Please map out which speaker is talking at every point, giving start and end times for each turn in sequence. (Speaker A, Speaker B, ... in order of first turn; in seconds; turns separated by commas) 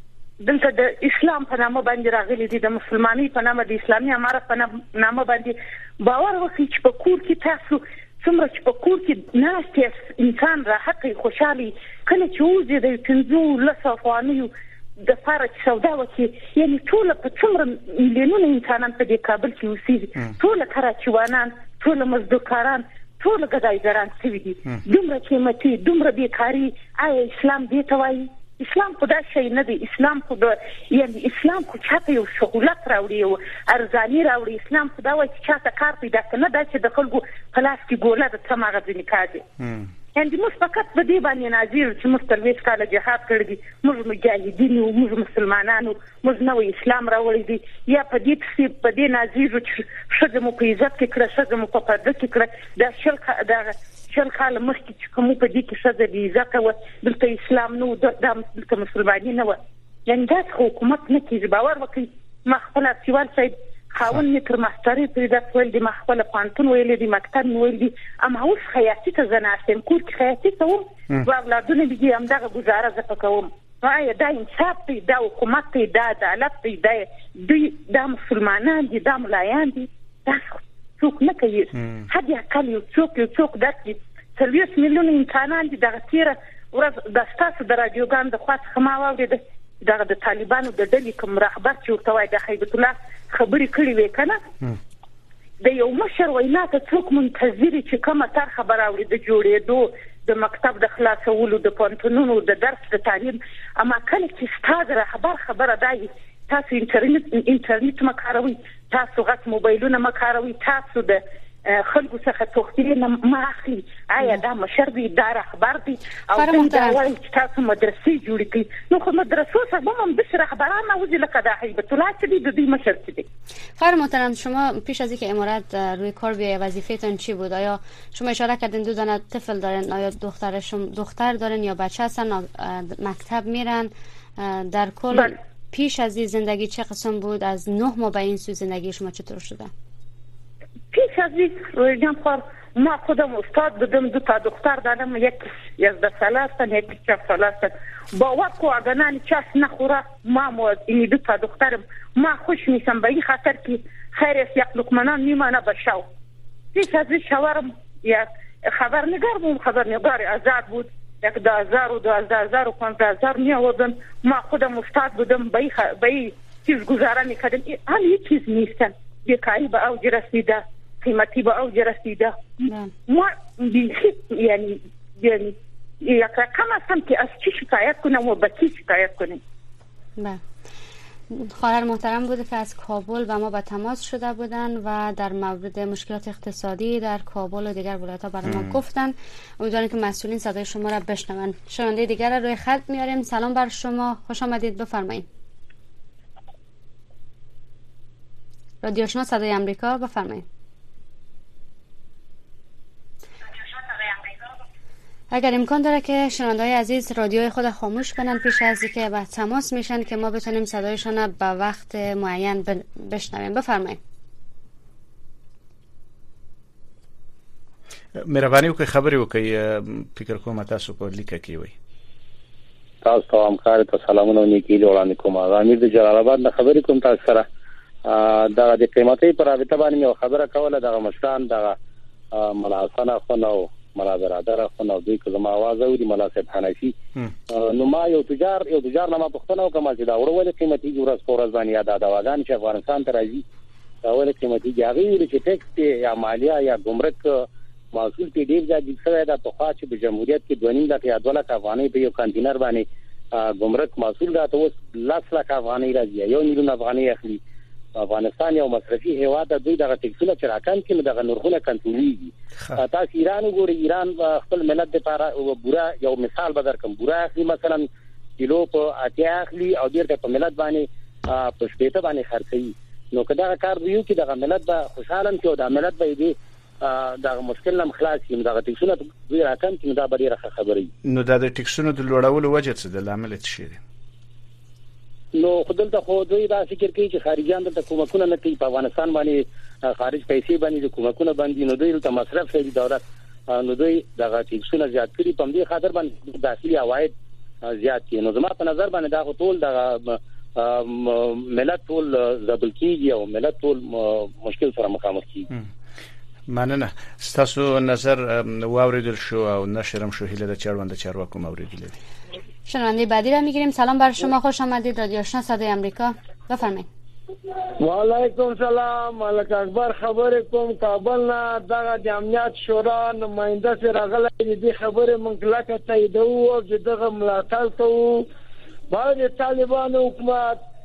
Speaker A: 0.4-39.4, Speaker B: 39.6-39.9, Speaker A: 40.1-94.4, Speaker B: 81.8-82.0, Speaker A: 95.6-123.2, Speaker C: 116.3-117.0, Speaker C: 123.8-139.7, Speaker A: 140.9-156.0, Speaker A: 156.7-172.4, Speaker A: 173.1-179.4, Speaker C: 181.3-195.2, Speaker B: 188.4-188.8, Speaker C: 198.8-200.4, Speaker C: 205.3-214.0, Speaker B: 218.1-221.7, Speaker D: 223.0-227.4, Speaker D: 228.0-231.8, Speaker D: 232.3-236.9, Speaker D: 237.5-243.4, Speaker D: 244.0-257.4, Speaker D: 257.9-267.9, Speaker D: 268.4-280.9, Speaker B: 281.0-283.8, Speaker D: 285.3-305.5, Speaker B: 306.5-311.9, Speaker C: 312.7-316.9, Speaker E: 317.8-328.3, Speaker E: 328.9-330.6